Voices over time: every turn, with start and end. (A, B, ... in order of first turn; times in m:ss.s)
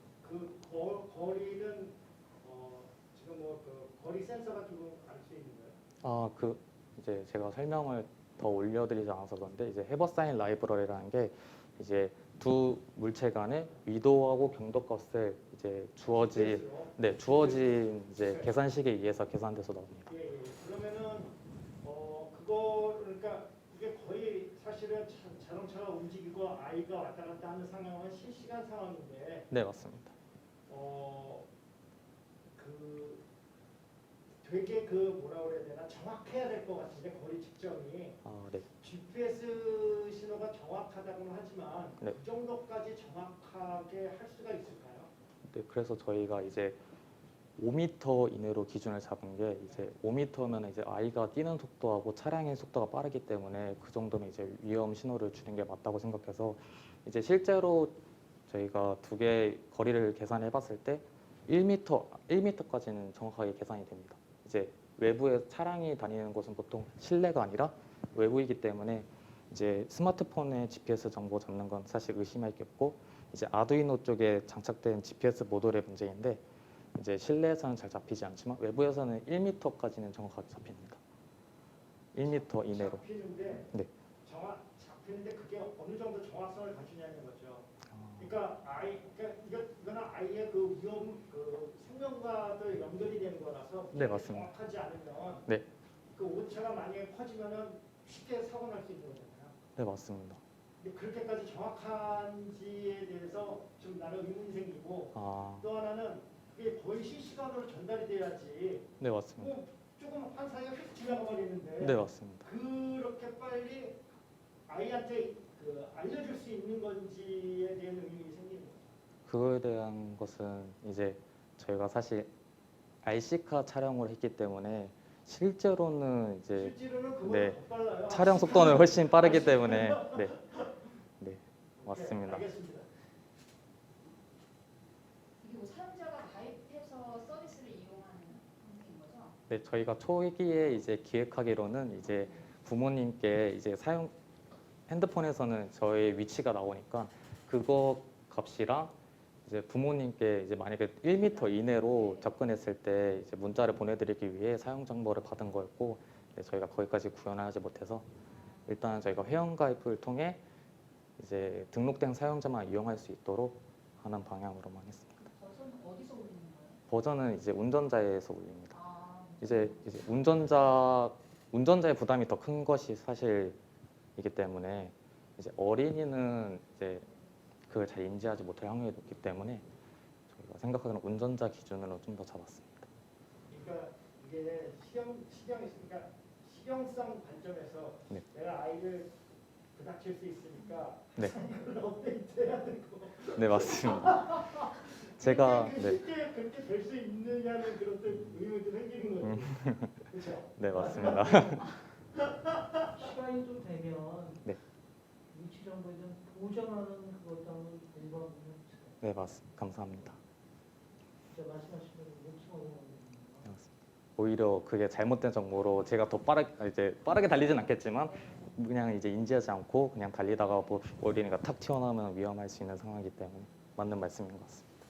0:00.2-0:05.8 A
0:06.0-0:20.1 B
0:16.2-0:18.5 A
0:20.1-0:29.5 A
0:29.5-0:30.1 B
0:30.7-0:31.5 A
0:32.6-0:33.2 A
0:34.4-0:38.2 A
0:38.2-0:38.7 B
0:38.8-0:45.1 A
0:45.5-0:46.8 B
0:47.6-1:16.4 B
1:17.0-1:21.0 B
1:22.1-1:23.0 B
1:22.5-1:23.7 A
1:24.2-1:27.7 A
1:27.9-1:28.3 B
1:28.2-1:35.5 A
1:33.9-1:34.5 B
1:36.1-1:39.6 A
1:39.8-1:40.4 B
1:40.8-1:54.0 A
1:45.1-1:45.7 B
1:49.0-1:49.5 B
1:51.8-1:52.5 B
1:54.7-1:58.9 A
1:59.2-2:02.3 B
2:03.0-2:06.7 B
2:06.5-2:10.7 A
2:07.2-2:10.4 B
2:11.2-2:12.5 B
2:11.8-2:12.9 A
2:15.4-2:19.4 C
2:19.5-2:24.1 B
2:24.9-2:28.9 B
2:29.5-2:38.0 B
2:38.6-2:40.4 B
2:41.2-2:45.3 B
2:45.3-2:46.8 C
2:46.9-2:48.8 B
2:48.8-2:49.7 C
2:49.4-2:53.6 B
2:54.2-2:57.0 B
2:57.7-2:59.6 B
3:00.3-3:02.9 B
3:03.5-3:09.1 A
3:09.7-3:21.6 A
3:13.3-3:16.0 B
3:19.5-3:20.0 B
3:20.6-3:21.8 B
3:22.3-3:22.8 A
3:22.9-3:24.4 D
3:25.3-3:29.0 D
3:29.0-3:30.2 B
3:31.3-3:33.5 D
3:33.5-3:44.7 B